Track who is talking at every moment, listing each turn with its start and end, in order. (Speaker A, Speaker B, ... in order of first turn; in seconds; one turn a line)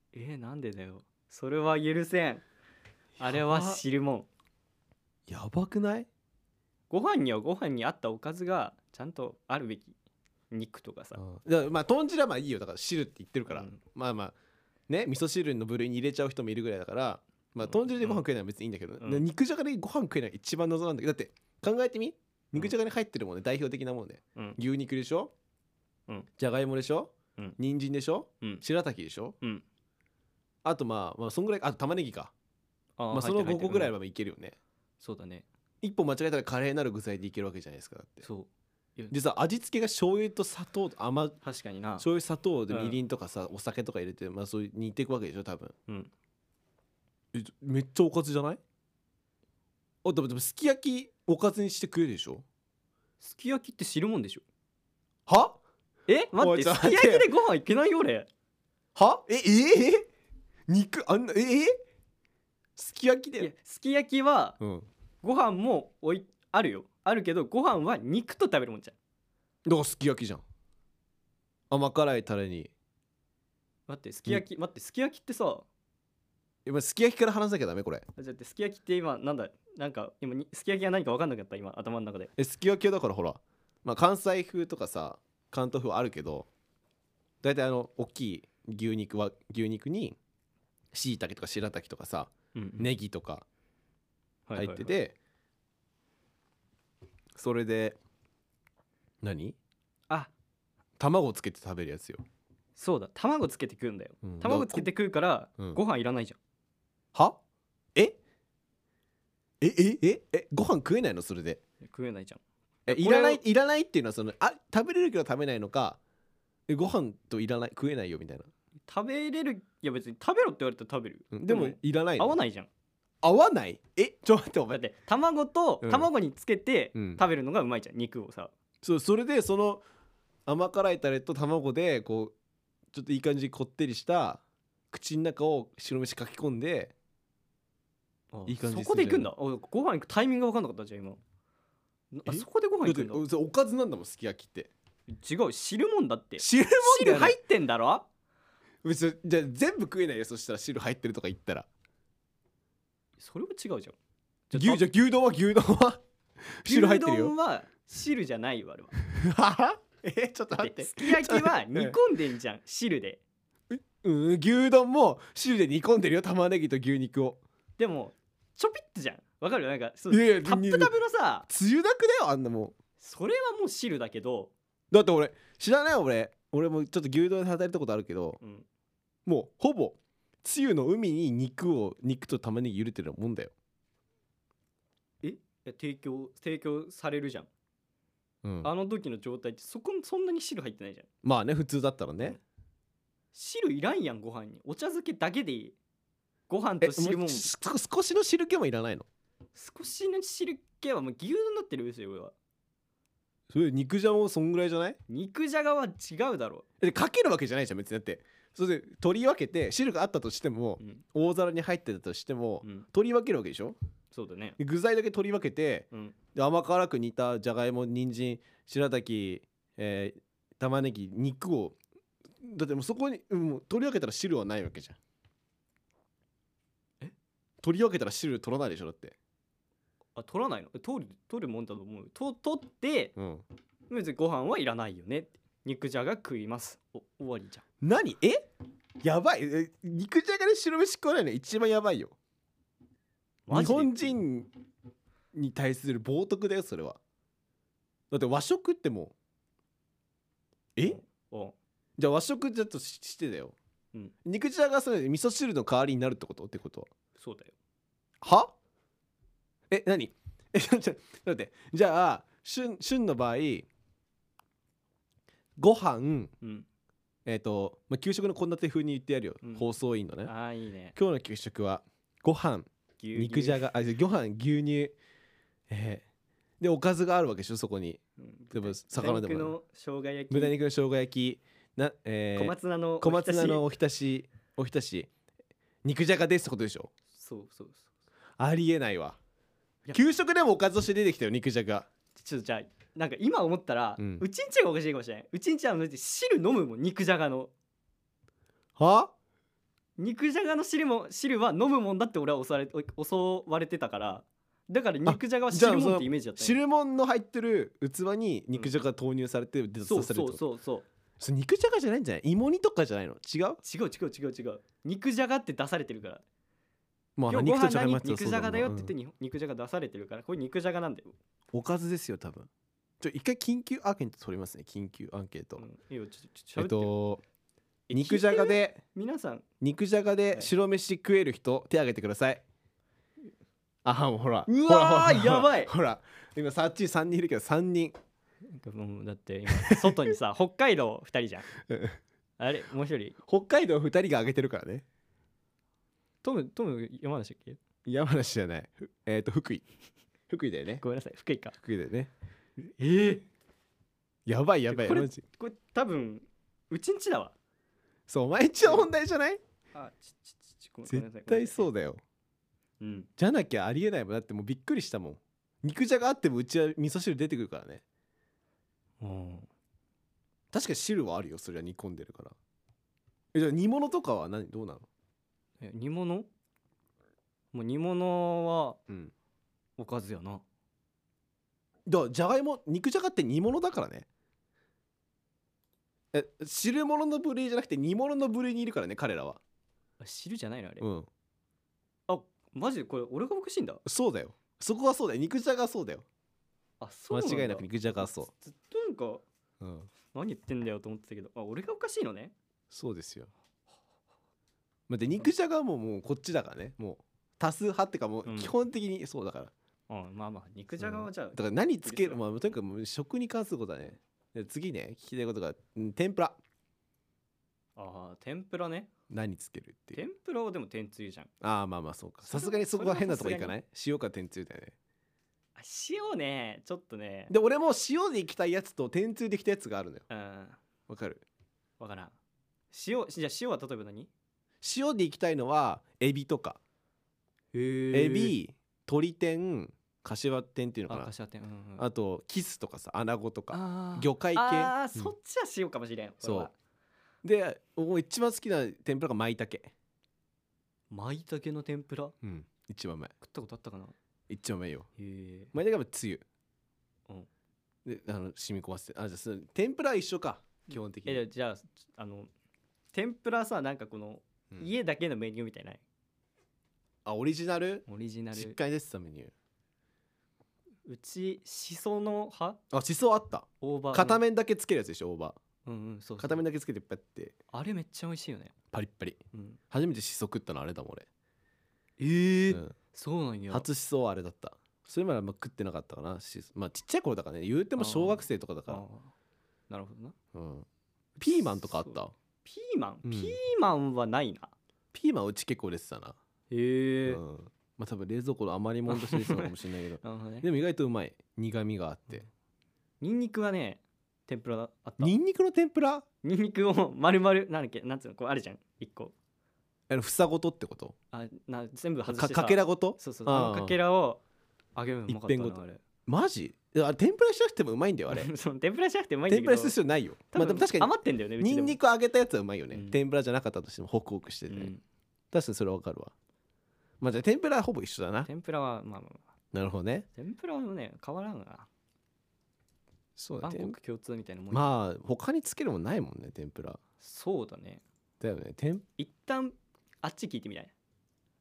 Speaker A: 0.1-2.4
Speaker B: 3.2-3.8
Speaker A: 3.2-4.3
Speaker B: 5.3-6.1
Speaker A: 6.9-9.9
Speaker A: 10.5-11.2
Speaker B: 11.2-14.3
Speaker A: 13.5-13.8
Speaker B: 14.9-25.3
Speaker A: 17.6-18.2
Speaker B: 26.4-29.4
Speaker B: 30.6-32.3
Speaker A: 33.0-33.9
Speaker B: 33.1-34.6
Speaker A: 35.0-35.5
Speaker B: 35.8-38.3
Speaker A: 38.2-39.1
Speaker B: 39.1-41.4
Speaker A: 41.4-42.1
Speaker B: 42.0-45.7
Speaker A: 42.7-43.0
Speaker B: 47.3-48.6
Speaker B: 50.0-52.5
Speaker A: 53.2-54.4
Speaker B: 55.3-55.6
Speaker A: 56.1-58.3
Speaker B: 56.4-57.3
Speaker B: 59.0-60.1
Speaker B: 60.7-61.8
Speaker B: 62.8-63.5
Speaker A: 63.4-64.6
Speaker B: 64.6-64.9
Speaker A: 65.2-69.0
Speaker B: 69.7-70.4
Speaker B: 71.7-72.7
Speaker A: 73.9-75.7
Speaker B: 76.7-78.1
Speaker A: 78.2-82.3
Speaker B: 82.4-86.5
Speaker B: 87.4-90.2
Speaker B: 90.9-93.5
Speaker A: 92.5-92.9
Speaker A: 94.5-94.9
Speaker B: 94.5-95.2
Speaker B: 97.4-98.0
Speaker B: 99.2-99.6
Speaker B: 101.0-102.2
Speaker A: 102.8-106.4
Speaker B: 104.2-104.9
Speaker B: 107.1-107.4
Speaker B: 109.6-111.6
Speaker A: 111.8-113.4
Speaker B: 112.9-116.0
Speaker B: 116.7-118.5
Speaker A: 118.9-122.7
Speaker B: 121.3-122.4
Speaker B: 123.2-124.8
Speaker A: 124.7-128.5
Speaker B: 125.8-126.1
Speaker B: 127.0-127.2
Speaker B: 128.8-129.8
Speaker B: 130.5-132.3
Speaker B: 132.9-136.9
Speaker A: 138.3-141.2
Speaker B: 138.5-139.3
Speaker A: 142.1-143.2
Speaker B: 142.3-144.7
Speaker A: 145.1-148.1
Speaker B: 146.4-147.4
Speaker B: 148.8-151.7
Speaker A: 153.2-154.0
Speaker A: 154.5-154.8
Speaker B: 154.5-156.0
Speaker B: 156.6-157.3
Speaker A: 156.7-158.9
Speaker B: 159.1-162.0
Speaker A: 160.6-163.2
Speaker B: 163.7-167.4
Speaker A: 167.8-171.5
Speaker B: 170.1-170.9
Speaker B: 171.5-172.8
Speaker A: 173.0-174.5
Speaker B: 174.9-178.4
Speaker A: 178.4-178.7
Speaker B: 179.3-183.5
Speaker A: 185.2-187.5
Speaker B: 188.4-188.7
Speaker A: 188.6-191.1
Speaker B: 191.2-192.4
Speaker A: 193.3-195.8
Speaker A: 196.5-197.5
Speaker B: 196.8-199.1
Speaker A: 199.6-202.3
Speaker B: 203.5-205.0
Speaker A: 205.1-206.7
Speaker B: 206.8-213.8
Speaker A: 214.1-214.6
Speaker B: 214.6-221.8
Speaker B: 222.4-225.0
Speaker B: 227.6-229.2
Speaker A: 230.2-233.2
Speaker B: 233.2-233.4
Speaker A: 233.9-237.6
Speaker B: 237.8-238.5
Speaker B: 239.0-242.2
Speaker A: 243.5-244.2
Speaker B: 243.5-244.5
Speaker B: 245.3-247.0
Speaker B: 248.1-249.1
Speaker A: 250.8-251.6
Speaker B: 252.0-253.6
Speaker B: 254.2-256.9
Speaker A: 257.2-257.5
Speaker B: 258.2-258.5
Speaker B: 259.7-263.7
Speaker B: 265.6-266.3
Speaker A: 266.4-266.7
Speaker B: 267.3-270.3
Speaker A: 270.2-271.0
Speaker B: 271.0-274.9
Speaker A: 273.0-273.6
Speaker B: 275.7-276.1
Speaker B: 276.6-278.0
Speaker A: 278.2-280.6
Speaker B: 278.5-279.6
Speaker B: 280.3-285.1
Speaker A: 282.4-283.6
Speaker B: 285.8-286.9
Speaker A: 287.1-287.9
Speaker B: 288.4-289.2
Speaker B: 289.9-291.9
Speaker A: 292.2-297.5
Speaker B: 294.0-294.2
Speaker B: 298.8-299.1
Speaker A: 300.0-306.6
Speaker B: 305.1-310.4
Speaker A: 308.5-308.8
Speaker A: 309.9-310.9
Speaker B: 311.2-313.6
Speaker A: 313.6-316.2
Speaker B: 317.2-318.9
Speaker A: 317.3-321.1
Speaker B: 321.5-322.5
Speaker B: 323.0-325.7
Speaker A: 325.6-326.9
Speaker B: 326.6-327.2
Speaker A: 327.9-329.4
Speaker B: 327.9-328.8
Speaker B: 329.6-332.4
Speaker B: 333.9-338.0
Speaker A: 334.5-335.7
Speaker A: 338.5-341.5
Speaker B: 339.6-340.0
Speaker B: 341.7-342.0
Speaker A: 342.4-343.2
Speaker B: 343.3-344.9
Speaker A: 346.2-347.6
Speaker B: 347.9-349.6
Speaker B: 350.3-350.8
Speaker A: 350.8-351.6
Speaker B: 351.5-352.1
Speaker A: 352.6-353.3
Speaker B: 354.3-355.2
Speaker A: 354.7-357.4
Speaker B: 358.1-359.4
Speaker A: 359.7-361.7
Speaker B: 360.9-362.0
Speaker A: 362.8-363.1
Speaker B: 363.2-367.8
Speaker A: 369.0-369.5
Speaker B: 370.5-372.4
Speaker B: 373.3-374.9
Speaker A: 375.6-376.3
Speaker A: 377.5-378.8
Speaker A: 379.8-380.4
Speaker B: 381.9-384.1
Speaker B: 386.1-389.4
Speaker A: 390.0-390.9
Speaker B: 390.8-391.1
Speaker A: 392.1-393.8
Speaker B: 393.9-396.1
Speaker A: 396.8-399.2
Speaker B: 397.1-398.3
Speaker B: 399.6-399.9
Speaker A: 400.1-402.3
Speaker B: 402.7-403.3
Speaker B: 404.9-409.5
Speaker A: 408.2-408.5
Speaker A: 409.9-412.3
Speaker B: 410.8-416.4
Speaker A: 417.8-418.9
Speaker B: 419.1-420.0
Speaker A: 419.9-421.3
Speaker B: 421.4-424.8
Speaker A: 422.2-423.6
Speaker A: 425.6-427.3
Speaker B: 427.3-430.1
Speaker A: 430.1-430.6
Speaker B: 430.9-431.2
Speaker A: 431.8-432.1
Speaker A: 432.7-434.1
Speaker B: 434.6-436.6
Speaker A: 437.5-438.4
Speaker B: 437.9-441.1
Speaker A: 440.9-441.8
Speaker B: 441.8-445.1
Speaker A: 443.5-446.5
Speaker B: 446.2-446.5
Speaker B: 447.2-449.7
Speaker A: 450.9-452.1
Speaker B: 452.2-453.1
Speaker A: 453.2-453.9
Speaker B: 454.3-454.9
Speaker A: 455.0-455.5
Speaker B: 455.5-456.2
Speaker B: 457.9-461.2
Speaker A: 461.1-462.3
Speaker A: 462.9-465.8
Speaker B: 467.1-469.3
Speaker A: 467.9-468.6
Speaker A: 470.9-472.6
Speaker B: 472.7-475.4
Speaker A: 473.6-474.2
Speaker A: 475.6-476.4
Speaker B: 476.2-477.4
Speaker A: 477.5-478.5
Speaker B: 478.7-481.1
Speaker A: 479.3-479.6
Speaker A: 482.0-483.7
Speaker B: 482.5-482.8
Speaker B: 483.5-488.8
Speaker A: 487.8-489.1
Speaker A: 489.7-490.1
Speaker B: 490.3-492.1
Speaker A: 491.2-494.5
Speaker B: 493.0-493.4
Speaker B: 494.9-496.2
Speaker A: 496.5-497.2
Speaker B: 497.1-502.3
Speaker A: 498.9-500.5
Speaker A: 503.0-505.1
Speaker B: 505.0-506.1
Speaker A: 506.2-509.1
Speaker B: 509.9-510.9
Speaker A: 511.1-514.2
Speaker B: 512.1-513.8
Speaker A: 514.8-515.8
Speaker B: 515.1-518.3
Speaker A: 518.1-519.8
Speaker B: 519.3-524.7
Speaker A: 520.3-521.8
Speaker A: 522.7-523.0
Speaker A: 524.5-524.8
Speaker B: 525.3-526.1
Speaker B: 527.0-528.3
Speaker A: 528.2-529.2
Speaker B: 529.5-530.1
Speaker A: 530.2-531.7
Speaker B: 533.2-533.8
Speaker A: 533.4-534.6
Speaker B: 534.5-536.8
Speaker A: 537.0-537.8
Speaker B: 538.2-538.9
Speaker A: 539.0-540.7